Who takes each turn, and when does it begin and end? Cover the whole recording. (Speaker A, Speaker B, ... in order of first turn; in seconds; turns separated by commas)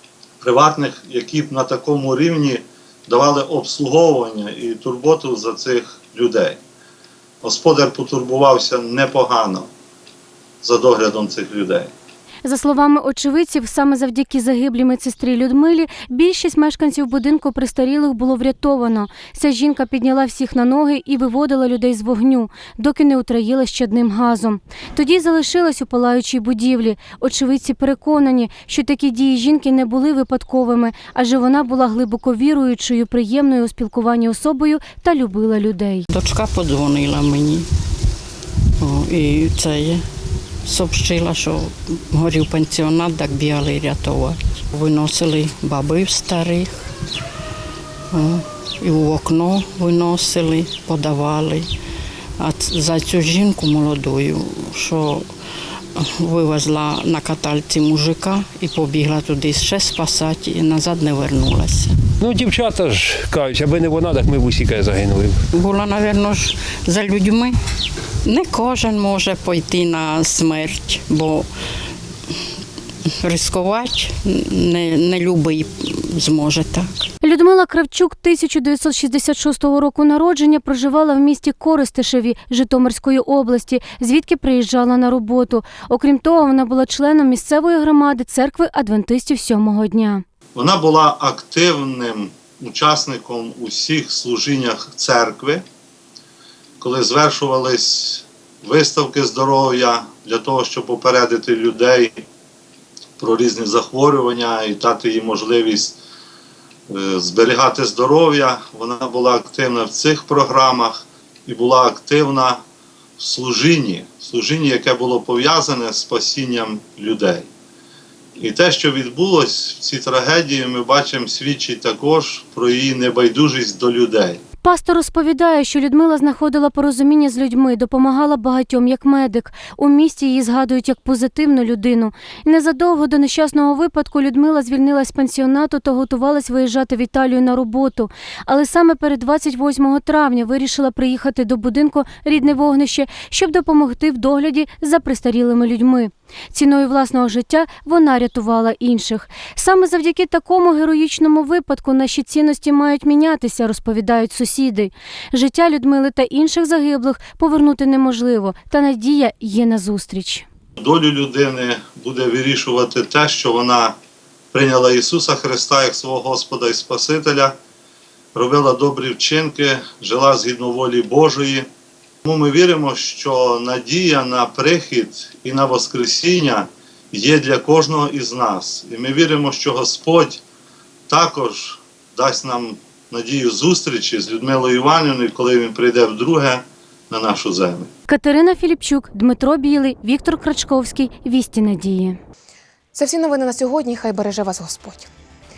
Speaker A: 0.4-6.6, Speaker A: 7.4-9.7, Speaker A: 10.6-11.9, Speaker B: 12.4-36.1, Speaker C: 36.1-37.7, Speaker C: 38.8-40.0, Speaker C: 40.6-46.9, Speaker C: 48.1-51.7, Speaker C: 52.4-55.3, Speaker C: 56.0-61.9, Speaker D: 62.2-65.4, Speaker C: 65.5-67.6, Speaker C: 68.2-71.5, Speaker C: 73.2-76.9, Speaker B: 77.2-90.2, Speaker A: 90.6-95.6, Speaker A: 96.8-102.2, Speaker A: 103.2-106.0, Speaker A: 106.9-112.6, Speaker A: 113.2-117.5, Speaker A: 118.4-124.4, Speaker B: 124.6-160.5, Speaker A: 160.8-164.0, Speaker A: 164.5-167.6, Speaker A: 168.3-171.7, Speaker A: 172.2-180.4, Speaker A: 181.1-187.9, Speaker B: 188.1-192.2, Speaker E: 192.9-195.1